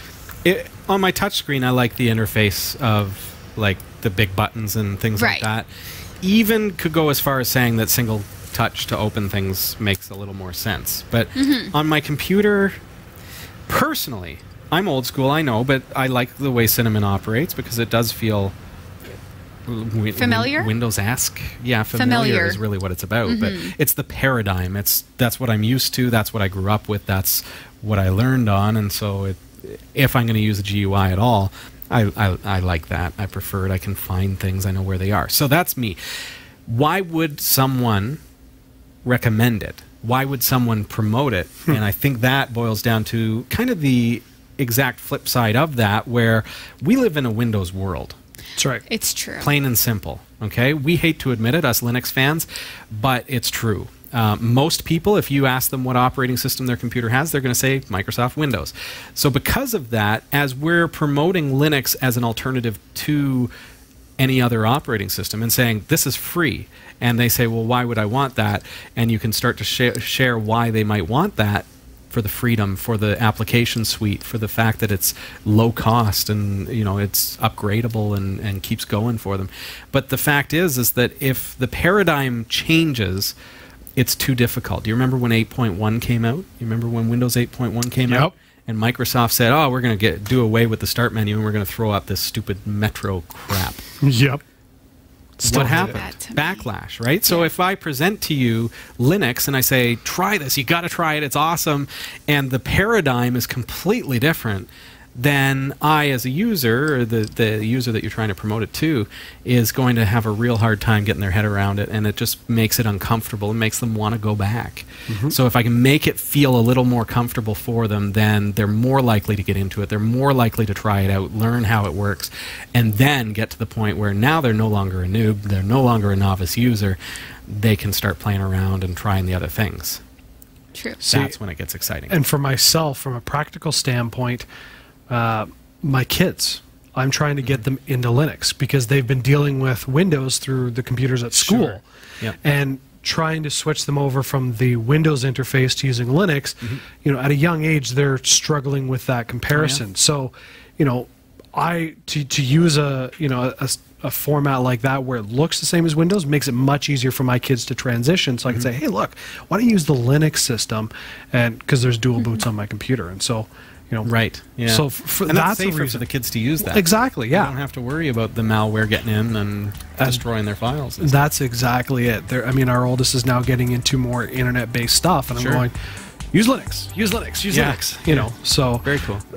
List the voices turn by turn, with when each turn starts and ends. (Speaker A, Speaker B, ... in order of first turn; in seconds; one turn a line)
Speaker A: 0.4-5.7
Speaker B: 5.2-5.5
Speaker A: 6.2-12.8
Speaker B: 11.3-11.7
Speaker A: 13.7-18.6
Speaker A: 19.6-36.0
Speaker B: 20.1-20.7
Speaker B: 21.9-22.6
Speaker B: 23.2-23.7
Speaker A: 36.7-38.2
Speaker A: 39.0-48.2
Speaker C: 48.6-48.8
Speaker B: 48.9-49.5
Speaker A: 49.4-63.5
Speaker A: 64.2-83.3
Speaker A: 84.0-93.8
Speaker C: 88.1-88.3
Speaker C: 94.0-94.4
Speaker C: 95.4-96.0
Speaker A: 95.4-130.0
Speaker B: 95.5-96.7
Speaker B: 97.2-97.5
Speaker C: 115.1-115.3
Speaker B: 130.7-131.0
Speaker A: 131.0-132.1
Speaker C: 131.1-131.4
Speaker C: 132.1-134.4
Speaker C: 135.1-141.8
Speaker A: 141.3-142.3
Speaker C: 142.4-164.1
Speaker A: 149.5-149.8
Speaker A: 164.0-171.2
Speaker C: 164.7-166.1
Speaker C: 166.6-167.6
Speaker C: 171.0-175.7
Speaker A: 175.3-175.7
Speaker C: 176.3-178.9
Speaker A: 177.5-178.3
Speaker A: 178.8-179.2